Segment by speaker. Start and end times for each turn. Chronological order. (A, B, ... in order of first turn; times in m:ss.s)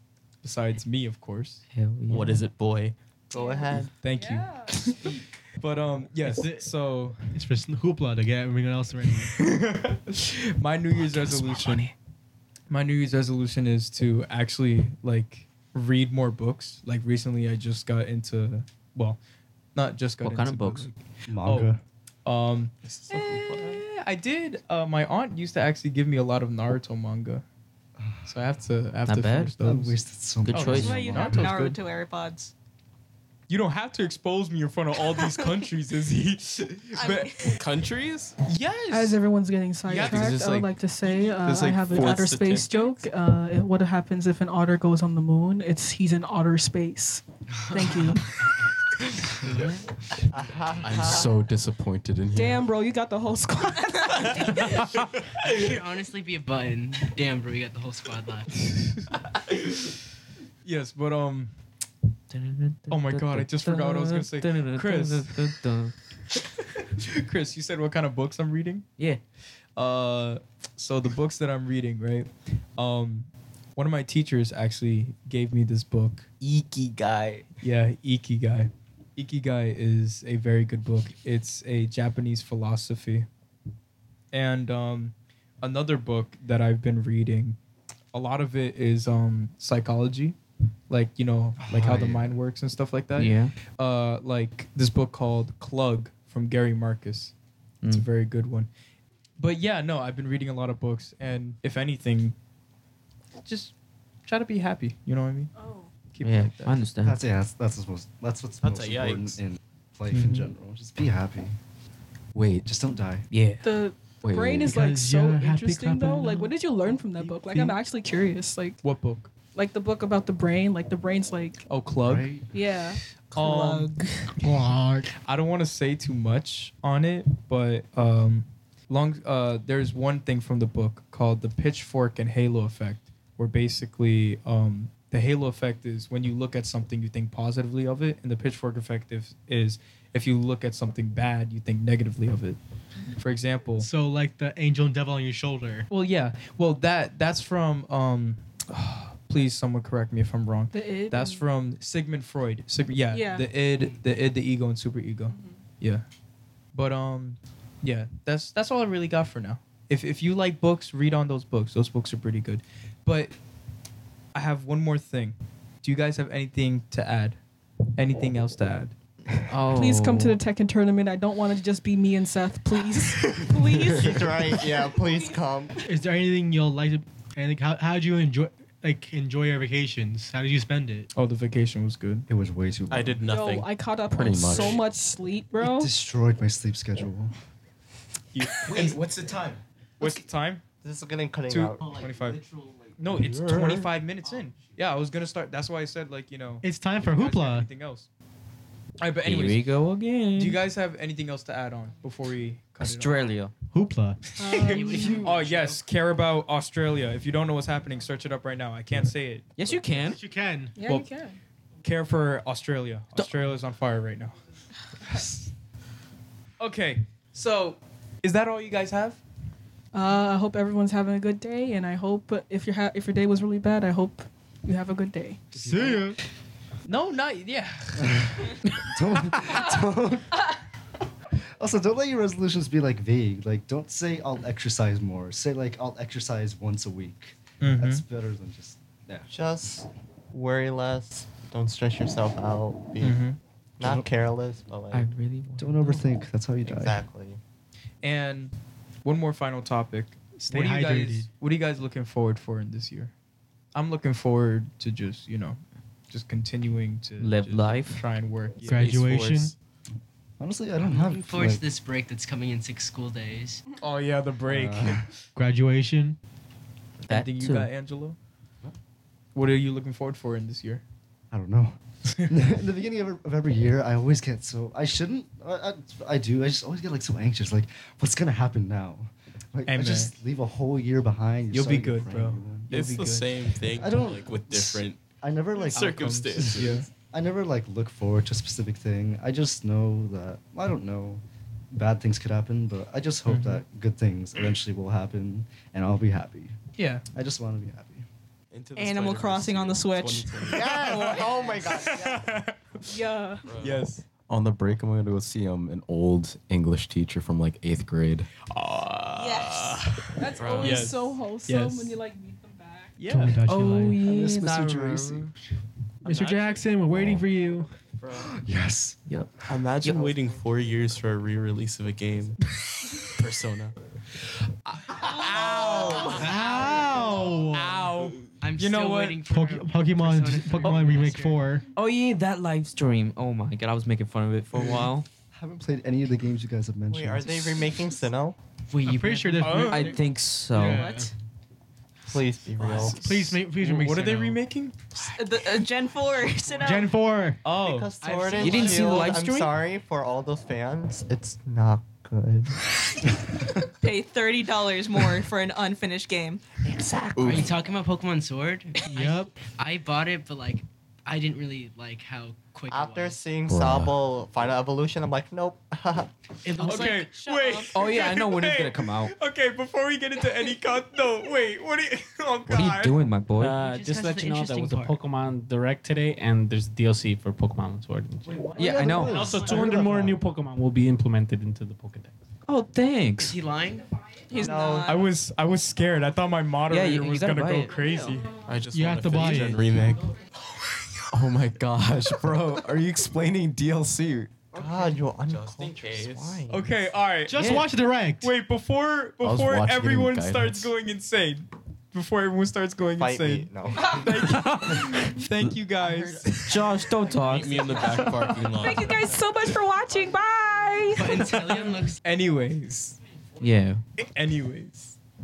0:00.4-0:01.6 A
0:01.7-0:02.4 B
0:02.1-0:03.0 C
0:03.3-0:03.9 D
0:03.3-0:05.0 E
0:04.0-0:05.0 A
0:05.6-0:07.2 A
0:06.2-0:06.7 F
0:07.2-0:09.4 F
0:09.3-0:11.9 A
0:12.7-0:19.2 A
0:19.8-0:21.7 A
0:20.2-0:20.9 B
0:21.3-0:21.8 G
0:22.2-0:27.4 A
0:22.8-0:23.8 C
0:28.0-0:28.2 G
0:28.3-0:30.0 A
0:29.1-0:29.5 B
0:29.6-0:31.7 G
0:30.4-0:31.2 B
0:30.5-0:31.7 A
0:30.7-0:32.5 H
0:33.5-0:37.6 A
0:35.2-0:35.4 H
0:37.0-0:37.6 H
0:37.6-0:38.4 C
0:38.5-0:39.2 A
0:38.9-0:48.4 E
0:39.9-0:40.3 A
0:39.9-0:42.4 I
0:41.8-0:43.0 C
0:47.7-0:48.2 J
0:49.5-0:49.8 J
0:50.3-0:51.5 D
0:50.8-0:52.7 I
0:52.3-0:55.1 E
0:55.3-0:58.7 J
0:59.5-0:59.9 A
1:00.6-1:01.5 A
1:02.3-1:05.9 B
1:02.9-1:05.6 A
1:06.6-1:08.9 A
1:09.8-1:16.3 A
1:16.4-1:17.4 I
1:17.6-1:23.3 A
1:24.3-1:27.6 A
1:28.1-1:30.4 A
1:30.9-1:37.3 A
1:31.6-1:32.3 G
1:33.2-1:33.5 B
1:37.8-1:38.7 A
1:39.4-1:42.4 A
1:43.4-1:43.7 A
1:44.3-1:45.5 A
1:45.6-1:45.9 E
1:46.1-1:46.9 A
1:46.2-1:47.2 B
1:47.0-1:51.6 G
1:48.6-1:49.4 C
1:50.1-1:50.5 A
1:52.3-1:52.7 I
1:52.6-1:53.3 G
1:53.3-1:53.6 B
1:53.6-1:58.8 E
1:54.2-1:54.7 I
1:54.6-1:57.9 F
1:58.8-1:59.3 A
1:59.5-2:01.6 E
2:01.7-2:02.3 A
2:02.0-2:02.5 G
2:02.5-2:03.0 E
2:03.3-2:03.9 A
2:04.4-2:05.1 F
2:05.2-2:22.6 A
2:23.2-2:23.9 A
2:23.8-2:25.9 F
2:25.9-2:36.0 A
2:30.7-2:31.4 E
2:33.1-2:33.5 E
2:35.3-2:35.6 E
2:36.7-2:43.4 A
2:44.3-2:47.4 A
2:48.0-2:48.9 A
2:49.5-2:50.4 B
2:49.7-2:55.4 E
2:53.9-2:55.8 D
2:55.9-3:01.1 F
3:01.1-3:02.3 A
3:02.3-3:03.3 G
3:02.9-3:03.7 C
3:03.3-3:05.9 E
3:04.1-3:04.8 I
3:04.5-3:04.8 C
3:05.6-3:07.3 G
3:08.3-3:09.0 A
3:08.7-3:09.6 I
3:10.0-3:10.6 A
3:10.8-3:11.9 D
3:11.5-3:12.4 A
3:11.9-3:12.9 I
3:13.0-3:18.1 A
3:13.1-3:13.9 C
3:16.6-3:17.7 F
3:19.0-3:19.7 A
3:19.2-3:20.6 B
3:20.4-3:23.4 A
3:22.8-3:23.5 B
3:23.7-3:24.2 F
3:24.4-3:25.3 E
3:24.5-3:29.5 A
3:24.5-3:25.9 J
3:29.6-3:30.2 B
3:30.0-3:30.8 F
3:30.8-3:31.4 E
3:31.8-3:34.4 A
3:35.1-3:35.3 A
3:36.6-3:39.2 A
3:39.9-3:45.6 E
3:45.5-3:46.2 F
3:46.9-3:48.8 A
3:48.0-3:50.4 G
3:51.6-3:59.3 G
3:57.6-3:58.0 A
3:59.3-4:03.2 D
4:03.0-4:03.4 A
4:03.8-4:05.1 D
4:03.8-4:04.1 G
4:04.9-4:06.0 B
4:05.6-4:07.0 G
4:06.6-4:07.4 D
4:08.0-4:08.5 A
4:09.0-4:13.1 A
4:10.5-4:11.3 F
4:13.7-4:18.9 A
4:17.2-4:18.0 B
4:18.7-4:19.5 F
4:18.7-4:19.6 C
4:20.4-4:21.6 G
4:20.8-4:23.6 J
4:23.8-4:25.1 A
4:24.5-4:25.1 G
4:25.4-4:26.2 F
4:27.0-4:27.7 B
4:27.1-4:28.2 A
4:29.4-4:30.8 A
4:31.3-4:31.8 G
4:32.1-4:32.4 A
4:32.3-4:42.7 G
4:39.7-4:40.1 A
4:41.5-4:43.3 A
4:42.7-4:45.0 C
4:43.7-4:56.6 G
4:45.6-4:46.9 C
4:45.7-4:46.9 A
4:53.3-4:53.6 A
4:56.8-4:57.0 A
4:57.1-4:58.1 G
4:58.5-5:00.9 C
4:58.8-5:00.6 H
5:00.5-5:02.4 D
5:00.5-5:02.9 A
5:02.8-5:03.5 E
5:03.5-5:03.8 C
5:03.6-5:04.0 A
5:04.3-5:08.3 I
5:08.5-5:09.9 A
5:09.1-5:10.0 H
5:10.2-5:13.0 E
5:10.4-5:11.0 C
5:10.6-5:12.0 A
5:13.0-5:13.4 A
5:13.0-5:14.0 F
5:13.5-5:15.3 B
5:13.8-5:15.4 G
5:16.0-5:17.7 F
5:16.0-5:16.7 C
5:18.0-5:18.4 C
5:18.2-5:19.0 G
5:19.1-5:20.2 B
5:19.5-5:22.4 C
5:23.1-5:23.8 C
5:24.7-5:29.3 A
5:25.0-5:27.2 H
5:26.1-5:27.9 F
5:28.4-5:31.5 J
5:29.3-5:31.7 F
5:31.7-5:35.1 B
5:35.3-5:37.6 G
5:36.9-5:38.4 D
5:38.7-5:39.9 J
5:38.8-5:41.1 F
5:39.4-5:39.9 A
5:39.7-5:40.9 B
5:40.6-5:41.1 H
5:42.1-5:43.0 D
5:42.6-5:42.9 J
5:42.8-5:44.8 A
5:42.9-5:44.4 F
5:45.0-5:47.0 H
5:46.4-5:46.8 J
5:46.6-5:47.4 F
5:47.4-5:47.9 A
5:47.5-5:52.7 D
5:48.0-5:49.2 J
5:48.4-5:49.6 B
5:53.8-5:56.5 H
5:57.1-5:57.5 I
5:57.2-6:03.3 J
5:58.9-5:59.4 F
6:02.7-6:06.1 D
6:03.5-6:04.0 I
6:06.5-6:07.1 J
6:06.6-6:13.0 A
6:06.6-6:07.8 H
6:07.7-6:09.1 B
6:12.5-6:13.6 B
6:13.4-6:22.1 K
6:13.6-6:15.0 J
6:18.4-6:20.2 G
6:18.6-6:19.3 B
6:19.1-6:19.7 J
6:22.5-6:23.4 B
6:23.2-6:23.9 J
6:24.3-6:25.1 H
6:24.3-6:24.9 D
6:24.9-6:28.3 A
6:26.7-6:28.0 B
6:28.4-6:30.1 C
6:28.7-6:29.7 F
6:31.1-6:34.4 I
6:34.5-6:36.7 D
6:34.6-6:36.4 C
6:36.5-6:47.1 A
6:37.3-6:38.3 F
6:37.4-6:37.7 B
6:39.2-6:40.7 I
6:43.0-6:44.1 D
6:44.5-6:44.8 B
6:45.8-6:46.4 J
6:46.4-6:48.0 B
6:47.2-6:49.2 C
6:48.6-6:51.2 E
6:50.9-6:52.0 J
6:51.2-6:53.0 A
6:53.4-6:53.8 B
6:54.0-6:55.0 A